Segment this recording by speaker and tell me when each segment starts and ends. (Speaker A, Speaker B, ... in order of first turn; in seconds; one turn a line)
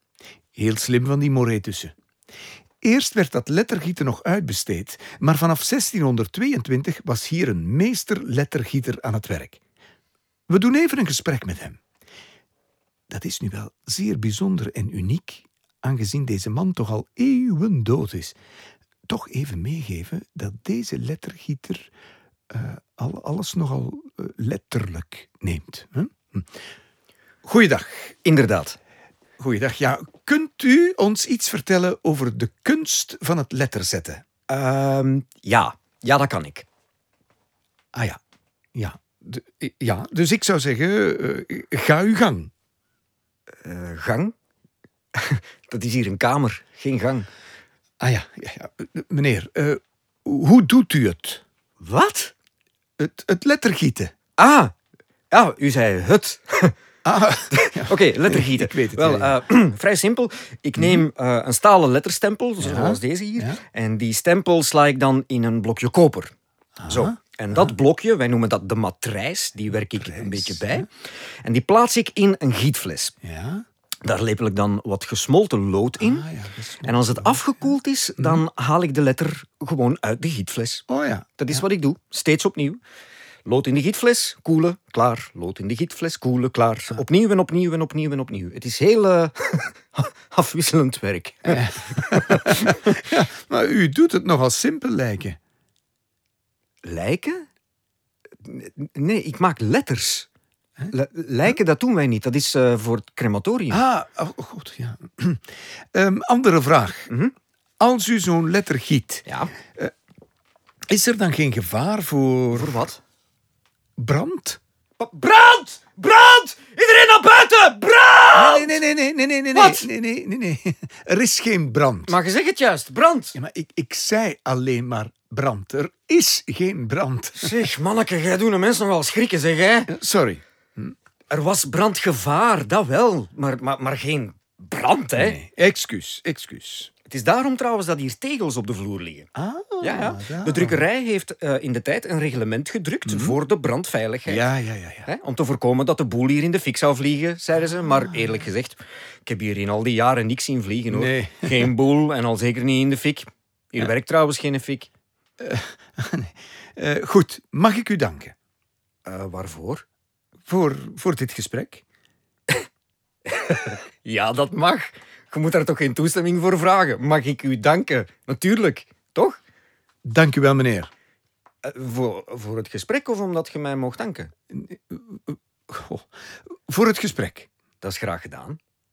Speaker A: 0.6-1.9
Speaker A: 2.8-9.6
Speaker A: 10.5-11.8
Speaker A: 13.1-18.4
Speaker A: 19.1-21.9
Speaker A: 22.5-26.5
Speaker A: 27.4-28.2
Speaker B: 28.2-28.8
Speaker A: 29.4-34.2
Speaker B: 34.5-36.7
Speaker A: 37.9-38.2
Speaker A: 38.8-42.5
Speaker B: 43.6-44.3
Speaker B: 45.1-47.3
Speaker A: 48.0-51.4
Speaker B: 51.8-52.3
Speaker A: 53.0-54.1
Speaker B: 54.4-54.7
Speaker B: 55.3-56.7
Speaker A: 57.0-59.4
Speaker B: 57.5-66.3
Speaker A: 60.8-61.0
Speaker A: 62.6-63.6
Speaker A: 66.8-67.2
Speaker B: 66.9-70.9
Speaker A: 69.7-70.9
Speaker B: 71.4-73.1
Speaker A: 73.2-73.7
Speaker B: 74.0-76.3
Speaker A: 76.0-78.4
Speaker B: 76.8-80.8
Speaker A: 80.9-81.6
Speaker B: 81.4-82.8
Speaker B: 83.5-92.9
Speaker A: 91.5-95.4
Speaker B: 96.8-97.5
Speaker B: 98.4-100.3
Speaker B: 100.9-103.8
Speaker A: 103.7-107.1
Speaker B: 107.1-107.3
Speaker A: 107.8-109.9
Speaker B: 109.3-109.5
Speaker A: 110.9-112.8
Speaker B: 112.5-113.0
Speaker A: 114.0-114.6
Speaker B: 115.0-118.8
Speaker A: 118.3-122.2
Speaker B: 119.5-119.9
Speaker B: 122.1-123.3
Speaker A: 123.3-127.6
Speaker B: 127.3-129.9
Speaker A: 129.9-130.9
Speaker B: 131.3-135.4
Speaker A: 135.2-136.9
Speaker B: 137.1-139.3
Speaker A: 139.3-140.8
Speaker B: 139.8-144.4
Speaker A: 143.1-143.4
Speaker A: 144.3-145.1
Speaker B: 145.1-154.9
Speaker A: 150.9-151.7
Speaker A: 155.4-158.3
Speaker B: 159.1-159.8
Speaker A: 160.5-161.8
Speaker B: 163.3-169.4
Speaker A: 170.1-170.9
Speaker B: 171.6-174.3
Speaker A: 174.5-176.1
Speaker A: 176.7-177.5
Speaker B: 177.8-178.6